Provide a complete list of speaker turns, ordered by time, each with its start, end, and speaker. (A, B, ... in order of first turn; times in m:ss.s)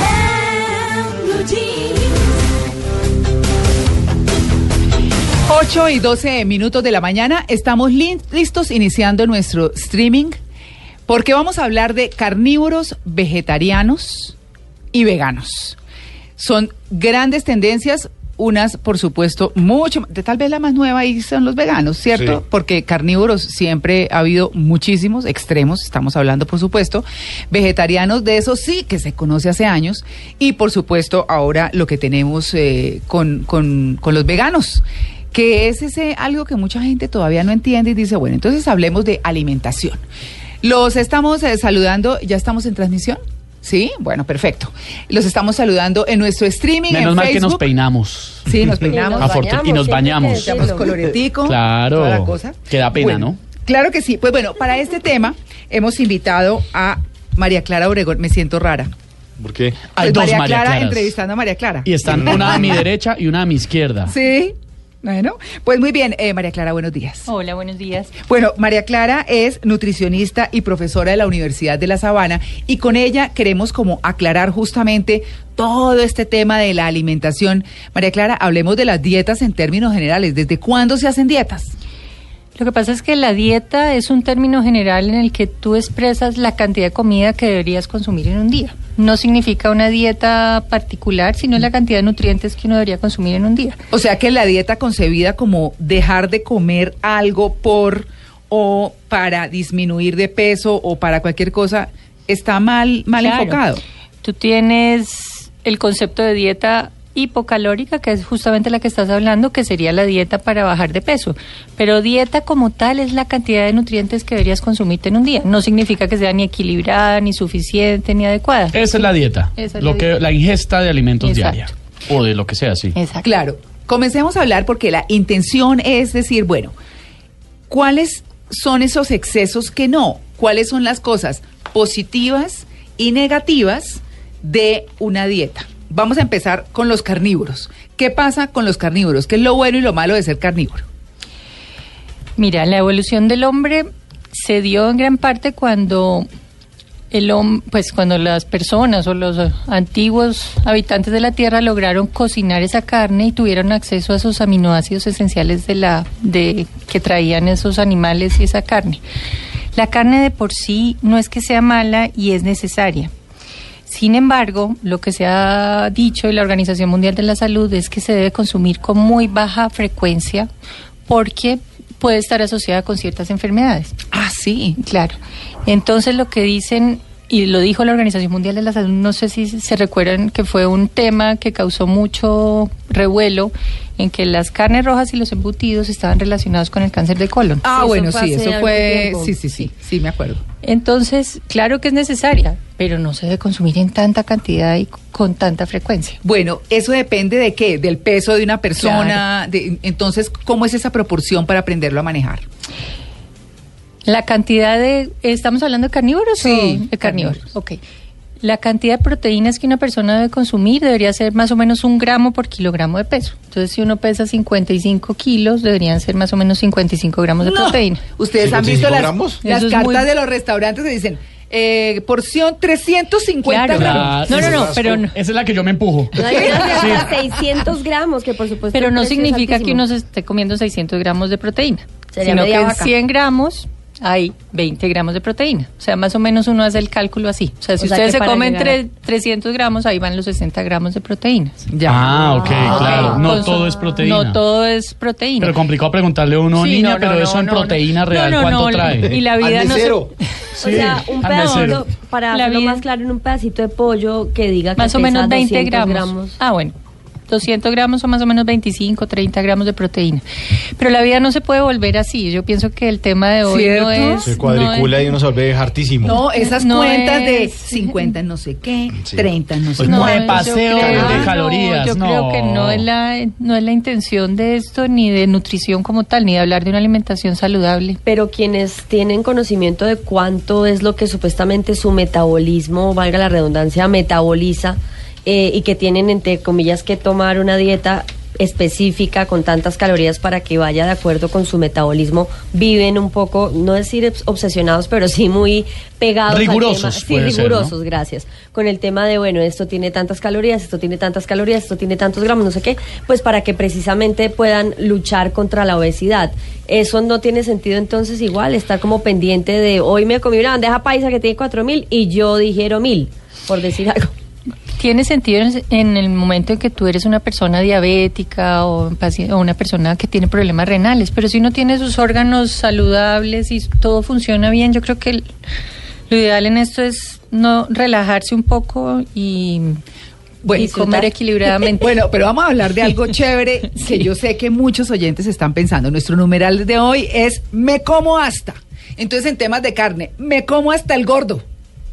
0:05.5-0:10.4 A
0:11.1-0:14.4 A
0:14.9-0:15.8 A
0:16.4-0:40.0 A
0:22.1-0:22.4 B
0:40.6-0:47.6 A
0:46.9-0:48.6 C
0:48.5-0:49.5 A
0:48.9-0:50.9 D
0:49.2-0:50.9 C
0:50.4-0:58.9 A
0:51.4-0:53.4 C
0:59.4-0:59.8 B
1:00.0-1:01.2 C
1:00.0-1:02.8 A
1:01.8-1:04.2 C
1:02.1-1:02.7 B
1:04.1-1:07.3 A
1:07.3-1:08.1 E
1:08.2-1:21.7 A
1:22.6-1:33.8 E
1:33.9-1:43.8 A
1:43.2-1:43.6 E
1:44.2-2:00.1 E
1:58.7-2:03.0 C
2:01.2-2:01.7 E
2:03.0-2:03.3 E
2:03.2-2:06.7 A
2:07.7-2:20.9 A
2:22.4-2:26.3 E
2:27.1-2:39.0 E
2:39.7-2:43.1 E
2:43.9-2:50.5 E
2:51.1-2:54.0 E
2:54.1-2:54.8 A
2:54.8-3:07.7 E
3:07.6-3:10.4 A
3:07.7-3:09.4 D
3:10.6-3:16.2 E
3:16.2-3:22.4 A
3:18.8-3:19.2 E
3:24.1-3:27.8 E
3:26.4-3:27.5 A
3:28.4-3:38.0 E
3:37.4-3:44.4 A
3:38.4-3:39.4 B
3:39.4-3:40.1 E
3:43.4-3:45.2 E
3:43.7-3:47.2 C
3:44.3-3:45.0 B
3:46.2-3:49.8 D
3:46.2-3:47.2 A
3:48.7-4:01.7 E
3:52.1-3:52.9 D
3:57.8-3:58.8 D
4:01.7-4:03.1 A
4:01.8-4:04.4 C
4:02.2-4:04.0 D
4:02.6-4:05.6 E
4:05.4-4:09.1 C
4:06.6-4:10.0 E
4:09.1-4:10.1 B
4:10.6-4:11.9 C
4:10.6-4:16.4 D
4:12.3-4:12.8 E
4:14.8-4:16.8 E
4:17.3-4:20.2 E
4:20.8-4:25.0 E
4:23.5-4:24.3 A
4:24.2-4:26.2 B
4:26.0-4:30.2 A
4:26.1-4:28.2 E
4:29.0-4:29.3 B
4:29.8-4:32.9 C
4:29.8-4:31.3 B
4:29.8-4:38.0 E
4:38.0-5:14.1 D
4:56.3-4:57.7 C
5:14.8-5:25.3 E
5:26.1-5:29.8 E
5:30.4-5:41.4 A
5:30.5-5:32.0 E